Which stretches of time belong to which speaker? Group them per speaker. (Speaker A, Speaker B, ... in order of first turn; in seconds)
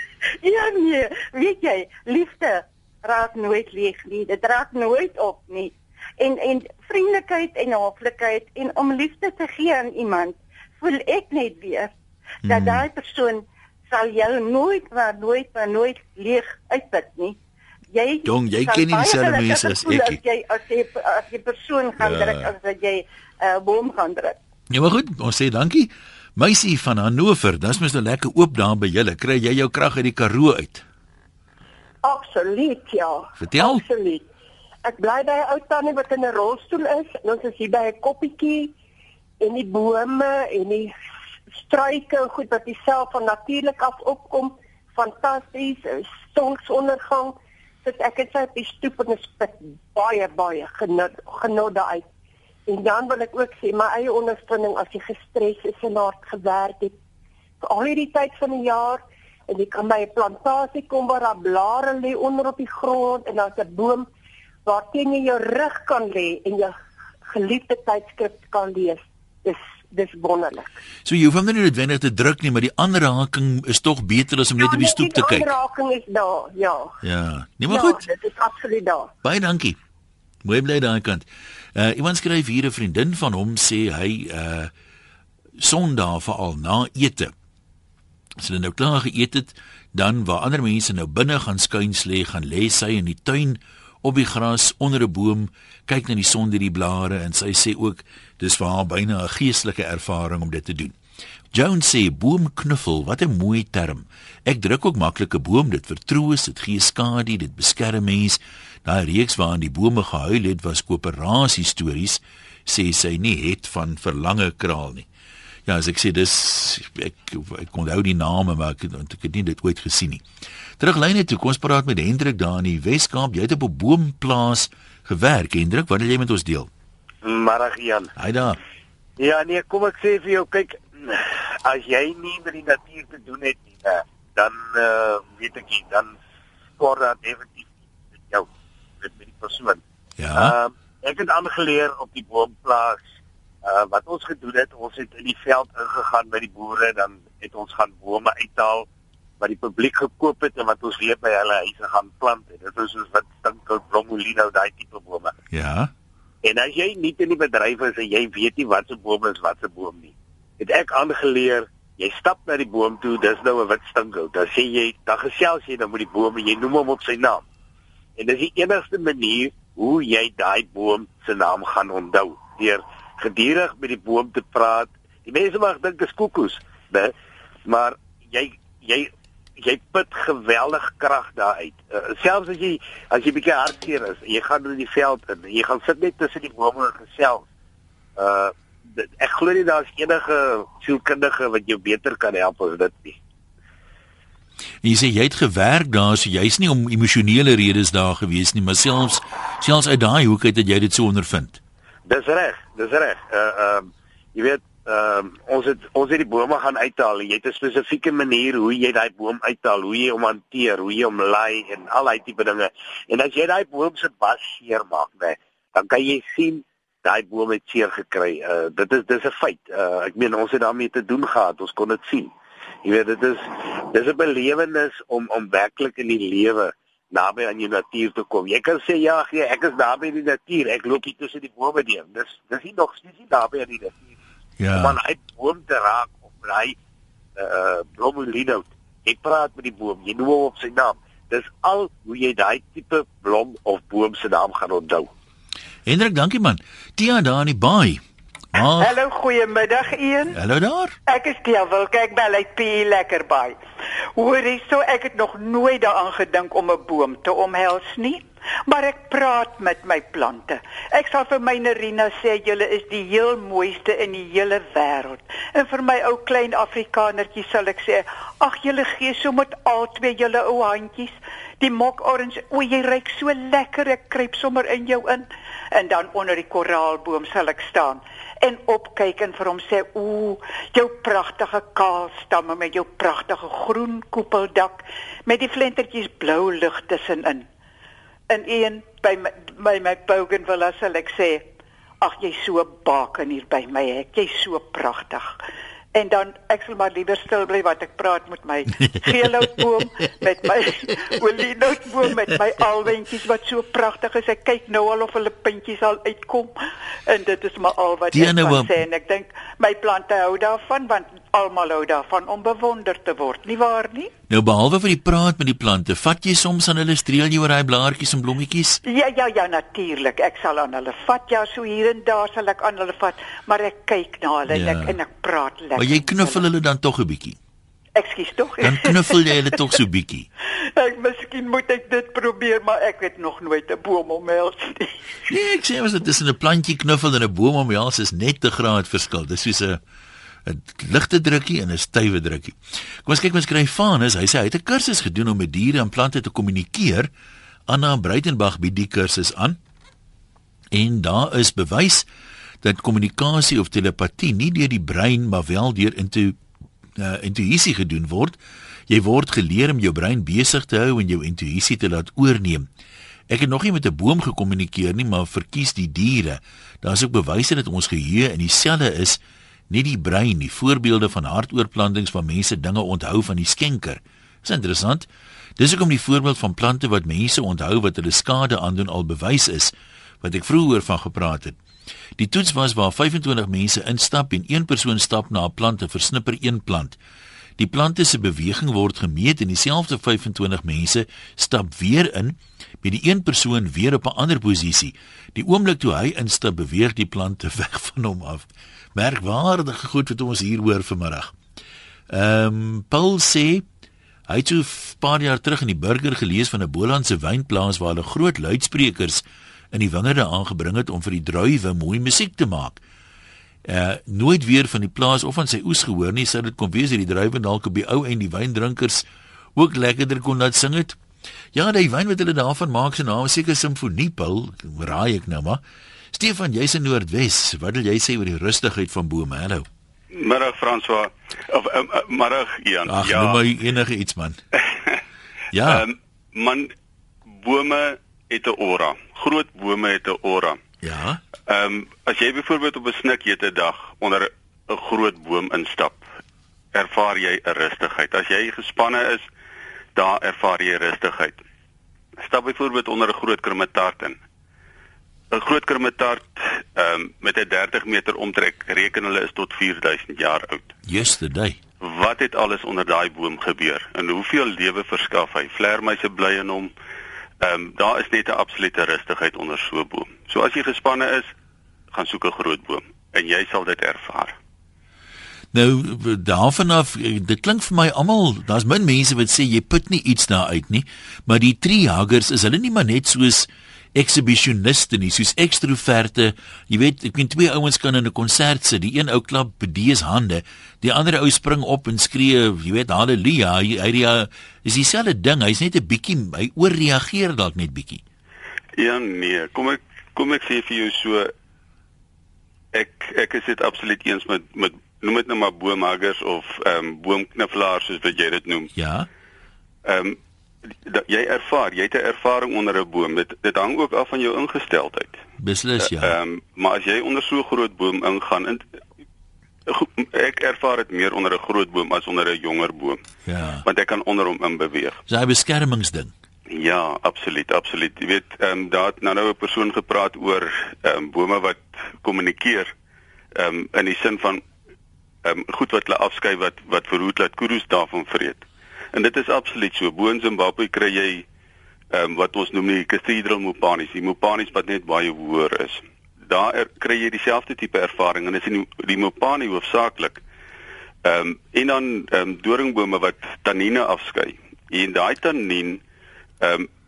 Speaker A: 0.4-11.9, 12.4-17.4, 17.9-24.4
Speaker B: 12.4-12.8, 18.2-20.2, 22.0-22.5, 24.7-30.8, 33.4-33.8, 71.0-75.5, 77.0-78.0, 79.2-79.8, 80.4-84.7, 85.6-87.3, 88.4-101.0, 101.5-115.1, 115.7-120.2, 120.8-126.7, 128.2-128.6, 140.2-140.5, 155.5-155.9, 194.8-201.6, 234.6-235.0, 245.8-248.0, 248.5-248.9, 250.3-250.9, 308.1-308.8, 314.3-318.8, 324.5-325.0, 325.7-327.4, 328.6-330.3, 335.3-339.8, 340.4-347.1, 347.7-349.6, 350.7-352.1, 352.6-356.4, 357.0-358.4, 358.9-362.7, 363.3-369.2, 369.7-375.1, 375.6-381.6, 382.2-387.0, 387.6-401.3, 402.1-403.6, 404.3-412.8, 413.6-419.0, 419.6-421.0, 421.5-425.6, 426.1-429.7, 432.9-434.4, 435.5-435.8, 440.8-441.2, 460.9-461.6, 475.5-498.0, 508.7-509.1, 515.4-516.2, 523.2-523.6, 525.1-526.1
Speaker C: 32.0-34.2, 34.8-38.7, 39.4-40.9, 41.6-52.0, 52.7-57.0, 57.6-64.0, 64.6-66.7, 67.2-70.7, 74.6-76.9, 77.7-79.1
Speaker D: 127.2-128.1, 129.2-136.1, 136.8-137.7, 139.0-139.8, 140.3-143.0, 143.6-148.9, 149.4-155.3, 156.4-167.4, 168.2-177.1, 177.7-187.4, 188.2-193.2, 202.1-222.3, 222.8-234.0, 234.7-236.8, 237.4-245.1
Speaker E: 248.7-250.4, 251.1-253.6, 254.2-287.5, 288.3-291.4, 292.0-295.3, 295.9-306.5, 307.1-314.1, 318.8-326.4, 327.9-329.2, 330.8-334.9
Speaker F: 430.1-433.4, 434.7-435.0, 435.6-436.7, 437.4-440.6, 441.5-446.0, 446.7-449.2, 449.9-451.4, 452.2-454.2, 455.3-460.7, 461.8-466.7, 467.4-471.3, 471.9-474.3, 498.8-501.3, 502.7-508.7, 509.8-510.2, 510.8-515.2, 515.8-518.6, 519.7-523.0, 523.6-525.0, 526.5-532.7, 533.3-534.4, 535.2-541.2, 541.9-550.2, 551.0-555.8, 556.4-556.7